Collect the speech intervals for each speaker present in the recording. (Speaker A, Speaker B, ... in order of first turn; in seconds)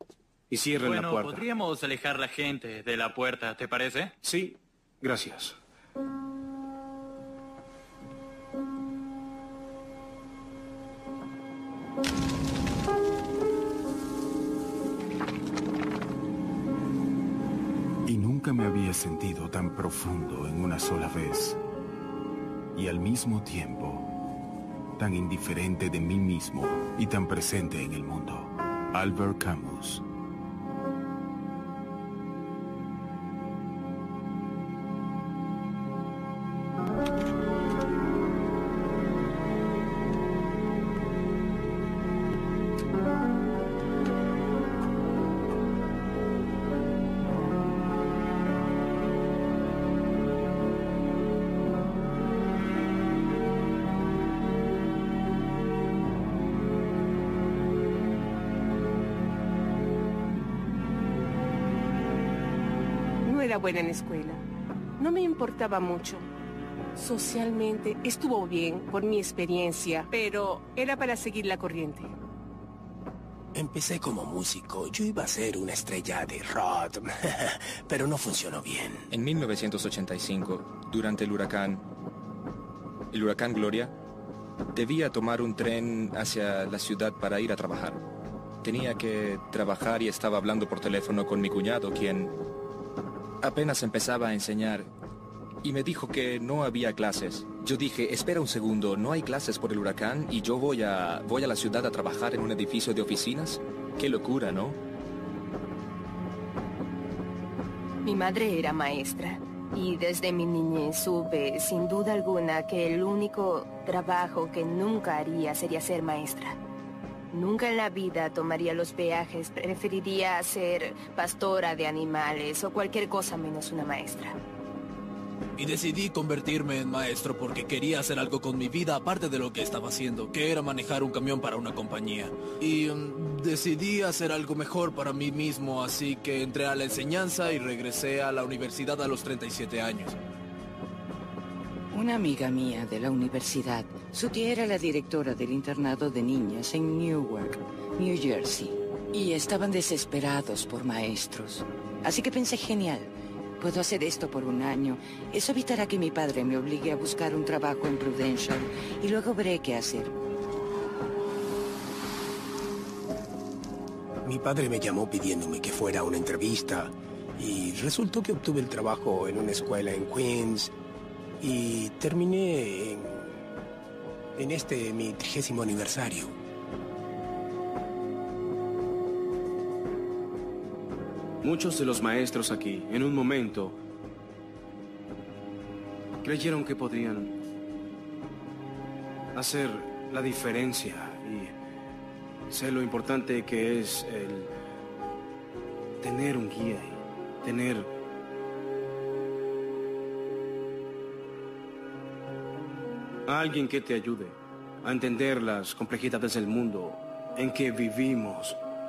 Speaker A: 0.5-1.5, 4.2-5.6, 181.4-183.8, 186.2-187.3, 189.4-191.5, 192.5-194.5, 196.0-197.9, 203.3-208.6
Speaker B: 0.8-4.1
Speaker C: 18.1-21.6, 22.8-24.1, 25.0-30.0
Speaker D: 63.2-64.4, 65.0-66.3, 67.0-72.1
Speaker E: 73.5-79.1, 164.2-170.7, 171.4-173.4, 174.4-176.3
Speaker F: 79.1-81.8, 83.1-83.9, 84.7-88.0, 88.6-92.3, 93.4-94.9, 95.6-104.8
Speaker G: 108.0-116.6, 117.3-124.4
Speaker H: 125.6-140.2
Speaker I: 141.9-160.1